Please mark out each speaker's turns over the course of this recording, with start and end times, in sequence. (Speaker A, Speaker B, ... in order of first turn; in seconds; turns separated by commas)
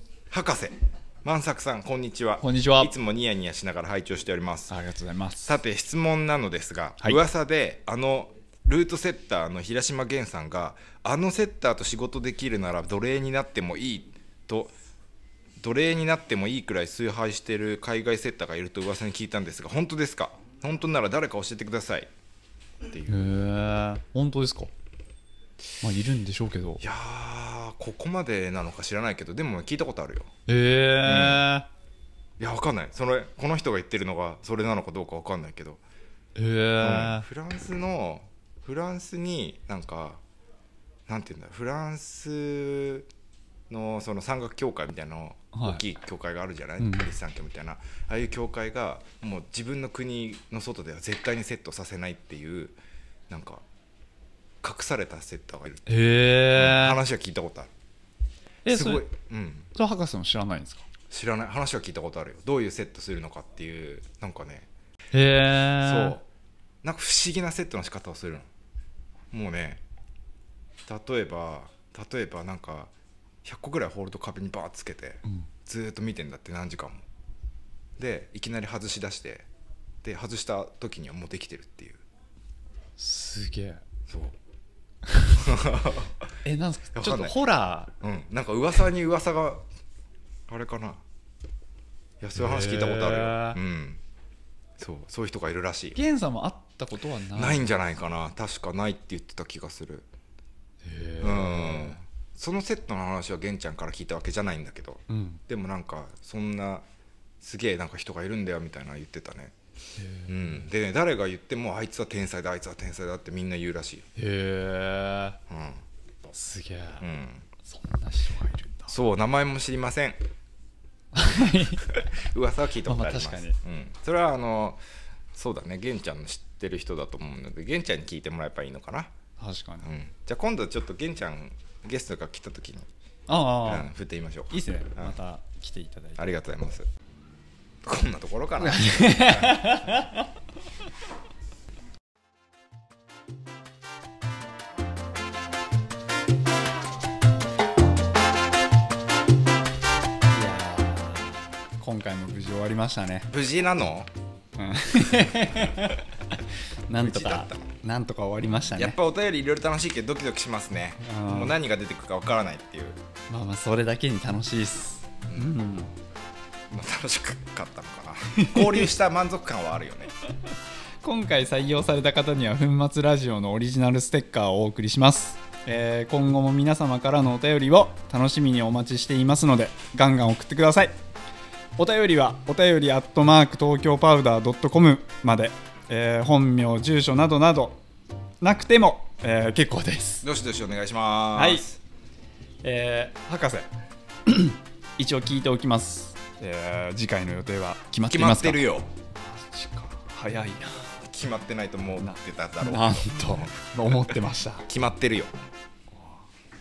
Speaker A: 0.3-4.7, Speaker B: 2.4-2.9, Speaker B: 4.7-5.5, Speaker A: 5.4-14.7, Speaker A: 15.6-22.1, Speaker A: 22.8-23.1, Speaker B: 23.1-24.7, Speaker B: 25.8-26.8, Speaker A: 26.8-30.3, Speaker B: 30.5-31.7, Speaker A: 31.0-31.5, Speaker A: 32.4-35.8, Speaker B: 36.4-37.3, Speaker A: 36.8-40.2, Speaker A: 41.1-43.1, Speaker A: 43.7-52.8, Speaker B: 45.5-45.8, Speaker B: 46.8-47.1, Speaker A: 53.3-53.6, Speaker A: 54.6-55.9, Speaker B: 55.9-57.0, Speaker A: 56.5-57.7, Speaker B: 58.6-59.0, Speaker A: 58.7-59.7, Speaker B: 59.7-60.9, Speaker A: 61.1-64.7, Speaker B: 65.1-66.2, Speaker A: 65.8-66.2, Speaker A: 66.8-68.5, Speaker A: 69.3-69.8, Speaker A: 70.9-72.9, Speaker A: 73.4-77.0, Speaker A: 78.0-79.5, Speaker A: 80.0-82.0, Speaker B: 83.0-83.8, Speaker A: 84.1-84.4, Speaker B: 85.1-85.4, Speaker A: 85.4-86.2, Speaker B: 86.4-87.9, Speaker A: 86.9-87.4, Speaker A: 88.0-89.7, Speaker A: 90.5-91.0, Speaker A: 92.2-94.0, Speaker B: 92.4-93.6, Speaker A: 94.8-96.0, Speaker B: 95.9-97.7, Speaker A: 97.3-100.1, Speaker B: 100.8-102.0, Speaker A: 101.2-106.8, Speaker B: 105.1-105.4, Speaker A: 107.4-109.5, Speaker B: 110.0-110.6, Speaker A: 110.3-114.0, Speaker B: 114.2-115.4, Speaker A: 115.5-115.8, Speaker B: 116.3-117.0, Speaker A: 117.0-117.5, Speaker B: 117.6-119.0, Speaker A: 118.9-120.2, Speaker B: 121.1-122.0, Speaker A: 121.9-124.8, Speaker B: 122.9-123.6, Speaker A: 125.3-129.1, Speaker B: 129.4-129.9, Speaker A: 129.8-132.9, Speaker B: 133.3-133.9, Speaker A: 133.5-135.2, Speaker B: 134.5-136.3, Speaker A: 136.2-136.9, Speaker A: 137.8-139.8, Speaker B: 138.6-140.2, Speaker B: 150.3-153.3, Speaker A: 153.3-154.1, Speaker B: 154.6-159.0, Speaker A: 156.9-157.7, Speaker A: 158.7-163.0, Speaker B: 161.0-161.6, Speaker B: 163.3-165.9, Speaker A: 165.3-165.5, Speaker A: 166.7-170.1, Speaker B: 168.3-168.9, Speaker B: 171.0-180.9, Speaker B: 181.8-187.8, Speaker B: 188.4-190.2, Speaker A: 190.2-191.8, Speaker B: 191.3-191.6, Speaker B: 192.6-193.7, Speaker B: 194.2-198.6, Speaker A: 198.1-198.9, Speaker B: 199.1-200.9, Speaker A: 201.0-203.9, Speaker B: 202.0-204.7, Speaker A: 204.7-205.4, Speaker B: 205.9-206.2